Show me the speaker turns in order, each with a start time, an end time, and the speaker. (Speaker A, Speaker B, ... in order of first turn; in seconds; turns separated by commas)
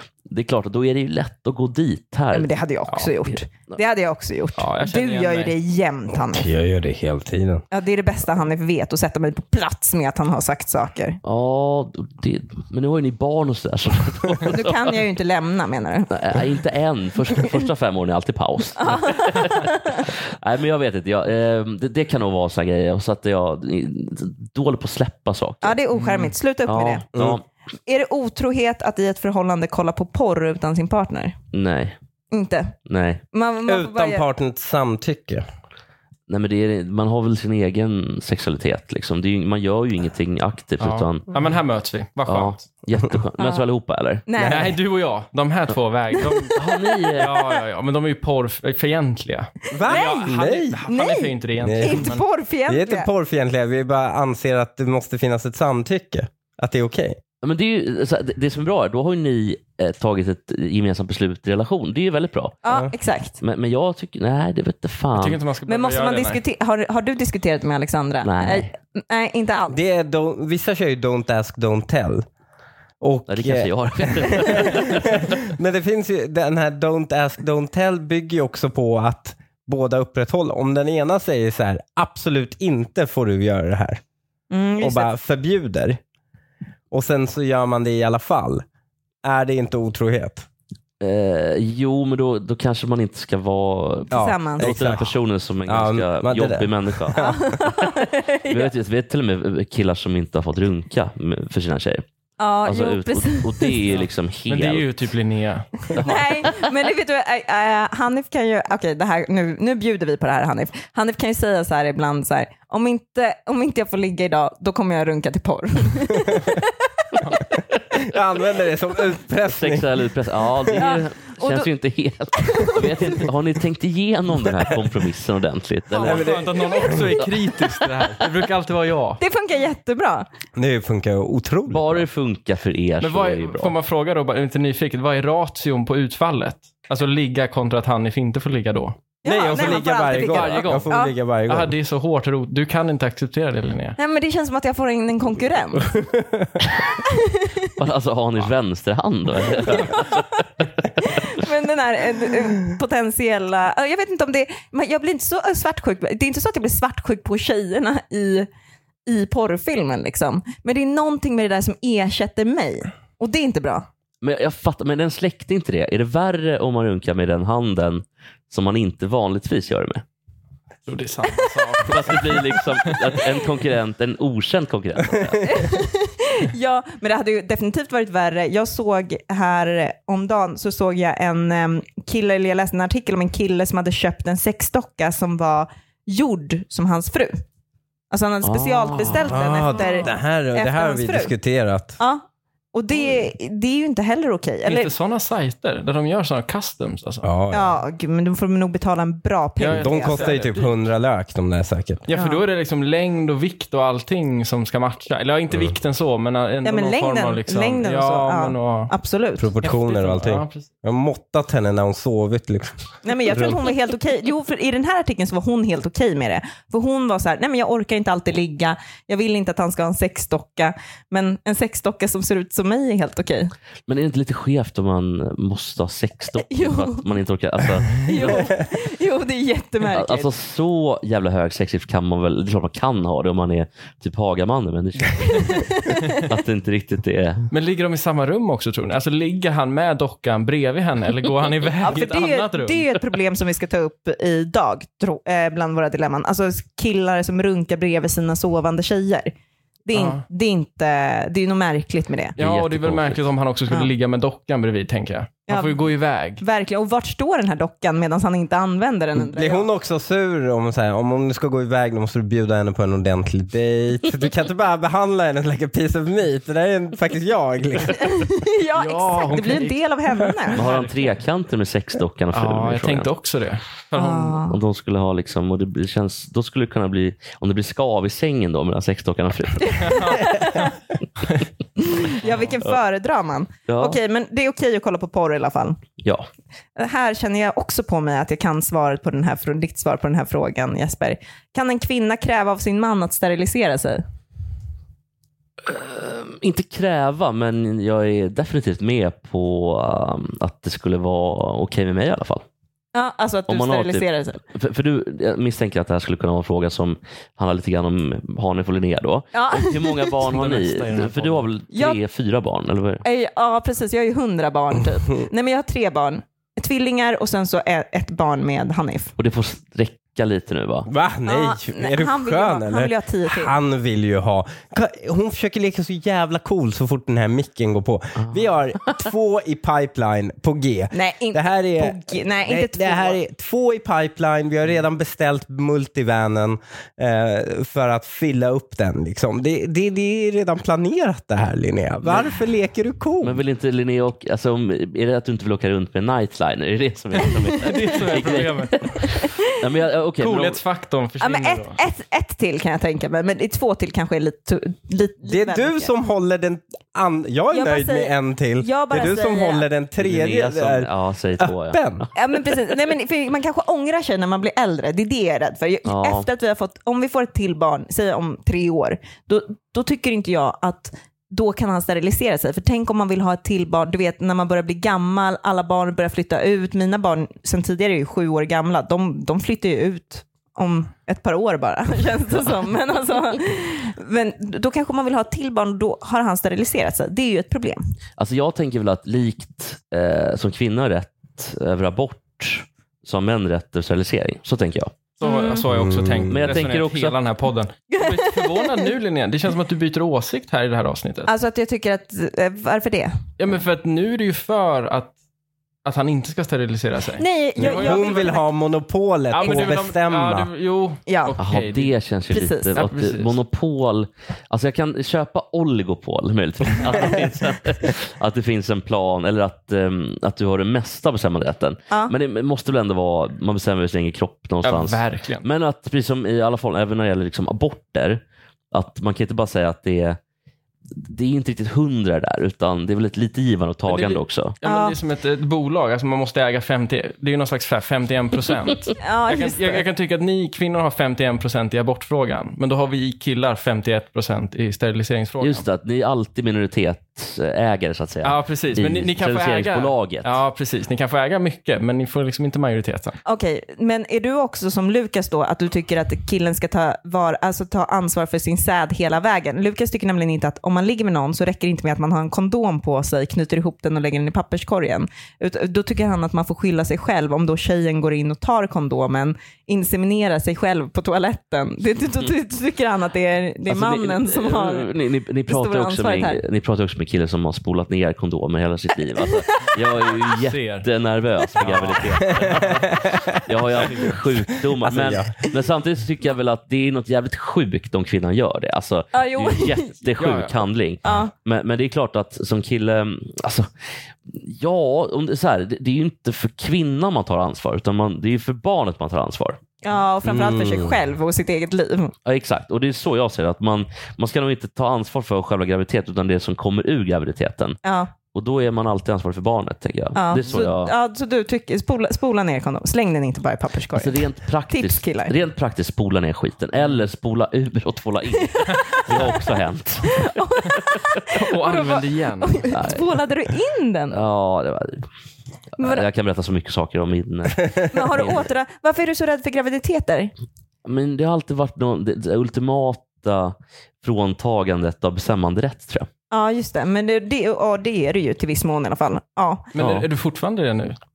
Speaker A: 0.3-2.5, Speaker B: 2.3-6.5, Speaker C: 4.6-5.5, Speaker D: 6.3-7.6, Speaker B: 7.7-11.2, Speaker A: 11.2-15.0, Speaker B: 14.4-16.1, Speaker A: 16.1-25.8, Speaker B: 18.8-20.1, Speaker B: 25.6-27.0, Speaker C: 25.9-26.3, Speaker A: 26.6-27.4, Speaker B: 27.9-31.3, Speaker A: 31.5-32.0, Speaker B: 32.3-32.8, Speaker A: 32.9-33.2, Speaker B: 33.3-34.2, Speaker D: 33.6-35.4, Speaker A: 36.3-41.3, Speaker C: 40.8-42.6, Speaker A: 42.3-44.2, Speaker B: 43.4-43.6, Speaker B: 44.3-44.7, Speaker D: 44.4-44.7, Speaker C: 44.4-46.6, Speaker B: 46.2-47.2, Speaker A: 46.5-47.4, Speaker C: 47.2-52.2, Speaker D: 49.7-50.8, Speaker B: 49.8-50.3, Speaker B: 50.9-53.1, Speaker D: 51.6-52.0, Speaker D: 52.7-57.2, Speaker A: 57.4-62.6, Speaker B: 62.6-63.4, Speaker A: 63.4-65.4, Speaker C: 65.1-66.4, Speaker B: 65.7-69.8, Speaker A: 68.2-68.7, Speaker D: 69.7-72.3, Speaker D: 73.0-84.0, Speaker A: 73.3-75.3, Speaker B: 84.5-85.1, Speaker D: 84.8-86.0, Speaker D: 86.9-88.6, Speaker D: 89.2-90.5, Speaker A: 91.0-97.9, Speaker B: 94.1-94.7, Speaker D: 94.1-97.5, Speaker B: 97.2-98.7, Speaker A: 98.5-102.0, Speaker B: 102.4-103.8, Speaker A: 102.6-105.0, Speaker C: 103.9-106.2, Speaker A: 106.0-106.5, Speaker B: 106.0-116.8, Speaker D: 117.9-120.9, Speaker A: 119.5-126.4, Speaker B: 120.8-121.7, Speaker B: 122.3-123.2, Speaker C: 126.0-129.2, Speaker D: 126.0-127.9, Speaker B: 129.2-130.3, Speaker D: 130.6-132.0, Speaker A: 131.7-133.7, Speaker C: 133.0-139.0, Speaker B: 139.2-141.1, Speaker D: 139.2-141.7, Speaker C: 139.6-140.9, Speaker C: 141.5-144.0, Speaker B: 144.0-146.0, Speaker D: 145.9-146.6, Speaker B: 146.9-147.7, Speaker A: 147.8-150.7, Speaker B: 149.6-150.4, Speaker B: 151.0-158.5, Speaker B: 159.1-163.8, Speaker A: 164.2-170.0, Speaker C: 170.8-173.2, Speaker A: 171.8-175.7, Speaker B: 175.4-187.4, Speaker B: 188.1-191.3, Speaker A: 188.4-189.4, Speaker D: 189.3-192.0, Speaker B: 192.7-194.9, Speaker C: 194.6-197.3, Speaker D: 197.2-197.7, Speaker B: 197.5-200.3, Speaker C: 199.6-200.7, Speaker D: 199.7-202.0, Speaker C: 202.1-208.9, Speaker B: 202.1-202.4, Speaker B: 206.6-209.5, Speaker D: 209.4-212.7, Speaker C: 209.6-210.7, Speaker B: 213.0-223.5, Speaker D: 213.2-213.6, Speaker A: 223.9-228.5, Speaker B: 226.4-227.0, Speaker B: 228.0-230.3, Speaker A: 229.9-237.5, Speaker B: 235.2-236.3, Speaker C: 237.5-242.8, Speaker B: 241.8-249.3, Speaker B: 249.8-252.4, Speaker C: 249.9-250.2, Speaker A: 252.4-253.2, Speaker C: 252.4-256.4, Speaker B: 255.5-255.9, Speaker B: 256.4-259.7, Speaker D: 259.1-268.1, Speaker B: 267.9-270.6, Speaker C: 268.8-269.8, Speaker C: 270.5-271.1, Speaker A: 270.5-273.1, Speaker C: 272.3-274.4, Speaker B: 273.9-274.6, Speaker A: 274.5-280.4, Speaker B: 279.6-280.7, Speaker C: 279.8-280.7, Speaker B: 281.8-285.8, Speaker C: 282.2-282.5, Speaker A: 283.7-284.0, Speaker A: 286.0-286.3, Speaker B: 286.8-294.0, Speaker A: 295.6-302.4, Speaker B: 302.9-304.4, Speaker A: 303.5-313.0, Speaker B: 309.3-310.2, Speaker C: 310.2-311.4, Speaker B: 311.7-312.0, Speaker B: 313.0-319.1, Speaker A: 319.2-320.9, Speaker D: 320.9-343.4, Speaker B: 321.3-323.5, Speaker B: 330.9-333.2, Speaker A: 342.0-342.3, Speaker A: 343.2-350.6, Speaker C: 347.6-349.0, Speaker B: 349.0-349.6, Speaker C: 350.2-351.8, Speaker B: 351.2-355.9, Speaker D: 355.2-362.0, Speaker B: 357.5-359.6, Speaker A: 360.0-362.1, Speaker B: 362.1-387.8, Speaker A: 365.9-366.3, Speaker A: 388.2-394.9, Speaker C: 395.2-401.3, Speaker B: 395.2-395.6, Speaker D: 395.7-396.6, Speaker A: 396.3-397.2, Speaker B: 397.9-398.9, Speaker B: 401.3-403.1, Speaker C: 403.4-405.1, Speaker C: 405.8-408.3, Speaker B: 407.2-408.5, Speaker D: 407.6-410.5, Speaker C: 409.3-411.9, Speaker B: 411.1-411.4, Speaker A: 411.4-430.2, Speaker B: 412.3-412.8, Speaker C: 412.7-413.4, Speaker C: 424.6-425.4, Speaker A: 430.9-434.5, Speaker C: 433.9-445.6, Speaker B: 434.6-435.0, Speaker B: 439.0-439.8, Speaker A: 445.4-450.4, Speaker C: 448.2-453.2, Speaker B: 453.2-474.9, Speaker A: 473.7-482.8, Speaker B: 475.5-476.4, Speaker B: 479.2-480.1, Speaker C: 480.4-480.9, Speaker C: 481.6-483.0, Speaker D: 482.4-483.4, Speaker A: 483.4-493.7, Speaker C: 483.8-484.1, Speaker D: 484.5-485.3, Speaker B: 489.1-490.0, Speaker C: 490.2-490.6, Speaker B: 491.0-491.3, Speaker A: 494.3-499.6, Speaker B: 499.8-502.1, Speaker D: 500.2-500.9, Speaker A: 502.2-507.8, Speaker B: 507.8-508.1, Speaker A: 508.3-510.9, Speaker B: 510.1-515.4, Speaker A: 513.9-520.3, Speaker B: 518.6-519.4, Speaker B: 520.0-524.2, Speaker C: 521.3-522.7, Speaker A: 522.7-523.0, Speaker A: 524.1-525.1, Speaker A: 525.8-528.5, Speaker B: 525.8-526.0, Speaker B: 527.9-530.3, Speaker A: 530.8-536.1, Speaker B: 536.3-539.7, Speaker C: 539.7-541.0, Speaker A: 539.8-540.1